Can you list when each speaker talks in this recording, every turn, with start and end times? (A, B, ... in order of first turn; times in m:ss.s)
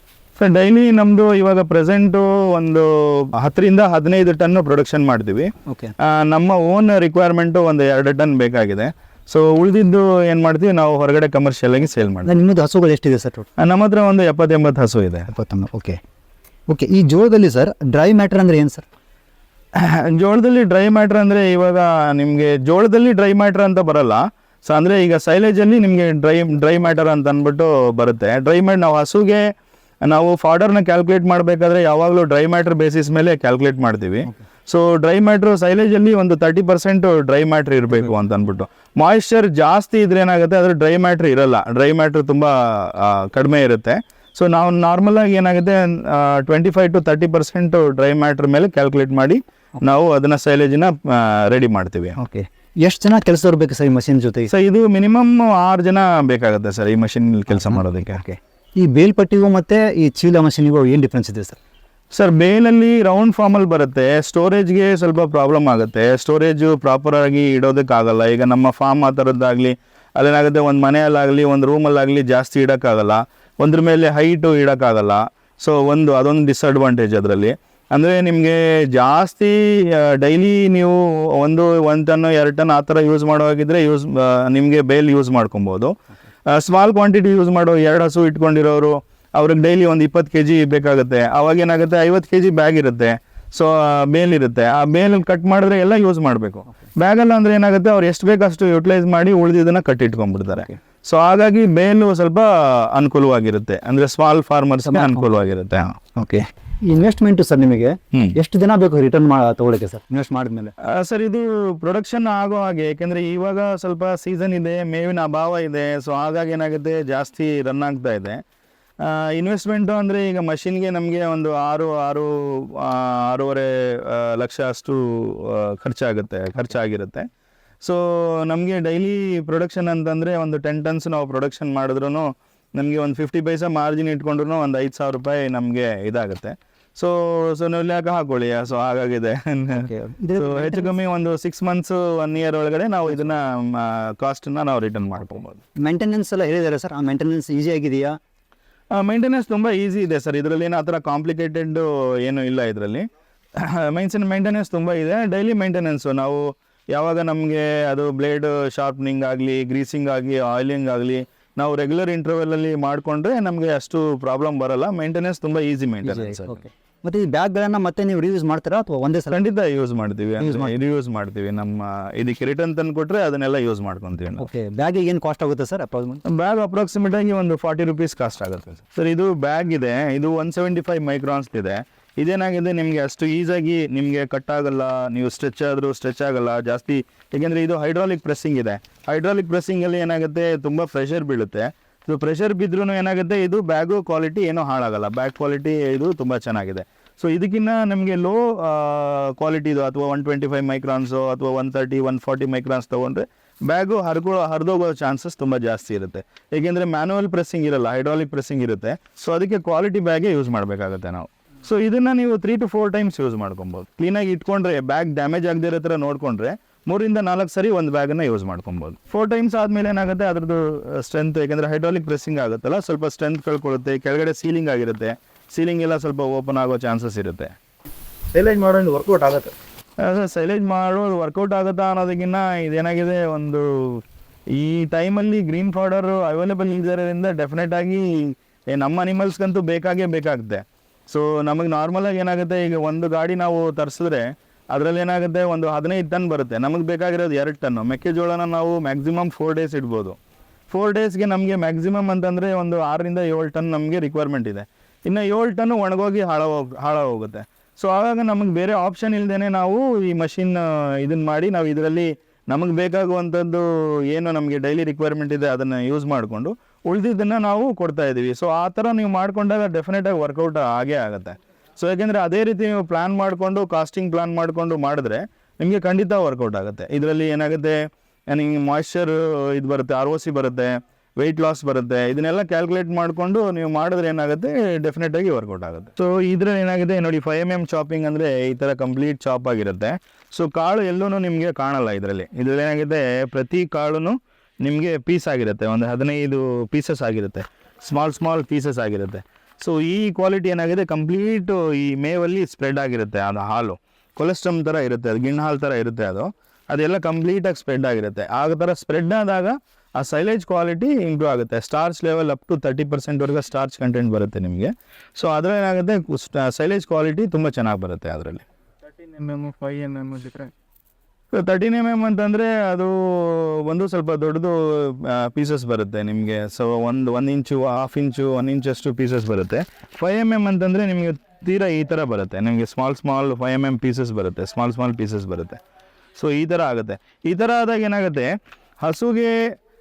0:00.4-0:12.3 A
0:05.7-0:05.9 B
0:12.2-0:13.5 B
0:13.6-0:15.3 A
0:15.3-0:16.0 B
0:16.7-0:18.8 B
0:19.8-0:29.4 A
0:30.0-0:52.2 A
0:52.2-0:54.5 B
0:54.5-0:58.3 A
0:57.5-1:01.6 B
1:02.1-1:26.0 A
1:26.5-1:46.0 A
1:44.8-1:45.2 B
1:46.2-1:50.7 B
1:50.8-1:58.4 A
1:59.0-2:07.3 A
2:07.8-2:25.6 A
2:19.7-2:20.9 B
2:25.8-2:28.2 B
2:28.9-2:46.7 A
2:46.0-2:49.4 B
2:49.3-2:54.5 A
2:50.4-2:50.7 B
2:54.4-2:56.2 B
2:56.2-3:47.6 A
3:48.4-3:49.1 C
3:48.4-3:49.4 B
3:50.0-4:10.2 A
4:10.7-4:37.8 A
4:38.3-5:18.4 A
5:19.0-5:20.5 C
5:21.3-5:35.6 A
5:36.2-5:39.4 A